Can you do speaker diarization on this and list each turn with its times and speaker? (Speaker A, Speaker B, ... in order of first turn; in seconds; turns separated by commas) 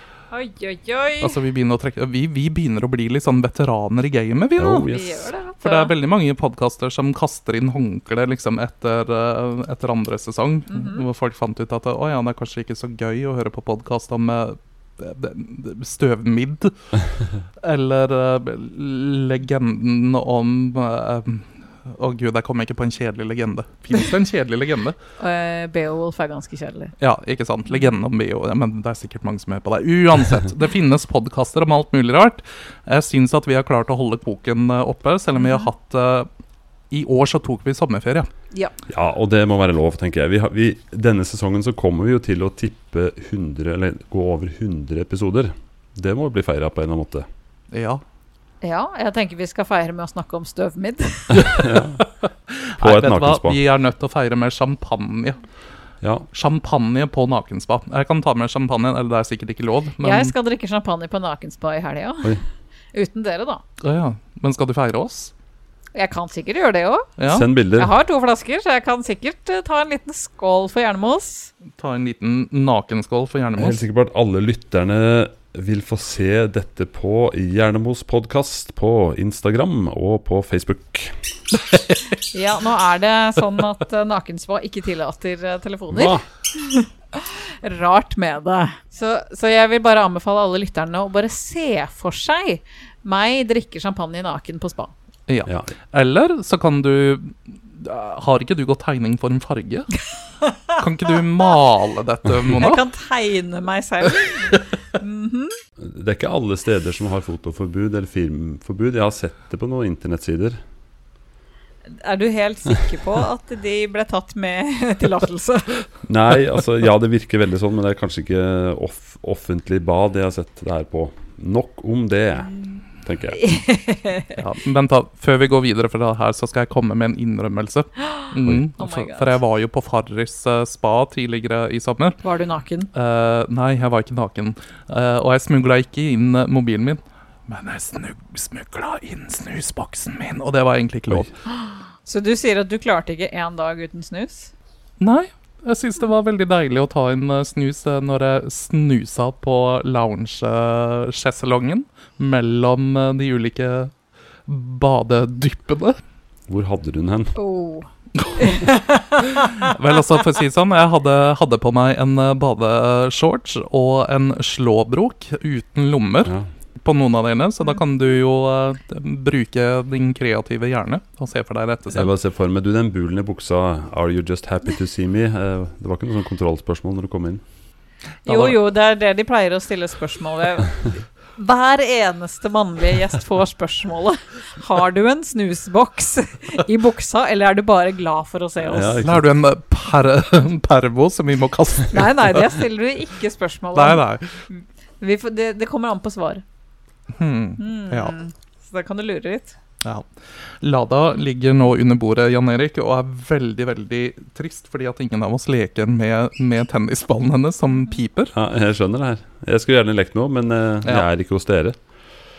Speaker A: 0.3-1.4, Speaker B: 1.2-4.9, Speaker C: 4.6-5.3, Speaker A: 4.9-5.9, Speaker B: 5.6-16.8, Speaker A: 10.7-11.0, Speaker B: 17.6-25.0, Speaker A: 25.2-26.9, Speaker B: 27.0-36.3, Speaker A: 35.4-35.7, Speaker B: 36.9-38.3, Speaker C: 38.9-47.3, Speaker B: 47.7-48.0, Speaker A: 48.6-51.7, Speaker C: 51.3-52.0, Speaker B: 52.0-55.4, Speaker C: 52.8-53.6, Speaker C: 56.0-56.3, Speaker B: 56.3-60.3, Speaker A: 60.0-62.4, Speaker A: 62.9-63.6, Speaker B: 63.8-65.3, Speaker A: 65.9-67.1, Speaker B: 67.2-67.5, Speaker C: 67.3-67.9, Speaker A: 67.8-71.5, Speaker B: 71.8-73.8, Speaker C: 73.5-81.2, Speaker A: 82.3-94.9, Speaker C: 85.9-86.2, Speaker B: 95.3-100.0, Speaker A: 100.4-100.8, Speaker B: 100.8-102.8, Speaker A: 102.5-105.6, Speaker C: 105.8-110.6, Speaker A: 111.9-115.8, Speaker C: 116.0-122.5, Speaker C: 123.0-123.4, Speaker A: 123.3-124.4, Speaker B: 124.3-132.2, Speaker A: 128.1-129.4, Speaker A: 132.2-132.9, Speaker B: 132.9-141.3, Speaker A: 141.6-144.5, Speaker B: 145.0-153.9, Speaker B: 154.5-156.0, Speaker C: 156.5-157.3, Speaker A: 157.3-159.7, Speaker B: 158.2-158.7, Speaker B: 159.3-172.1, Speaker C: 171.9-177.4, Speaker A: 178.2-189.0, Speaker B: 178.3-178.6, Speaker C: 188.6-189.2, Speaker B: 188.9-192.6, Speaker A: 191.9-196.4, Speaker B: 193.7-194.3, Speaker B: 197.1-198.1, Speaker A: 197.6-199.5, Speaker B: 200.6-208.3, Speaker C: 208.3-211.8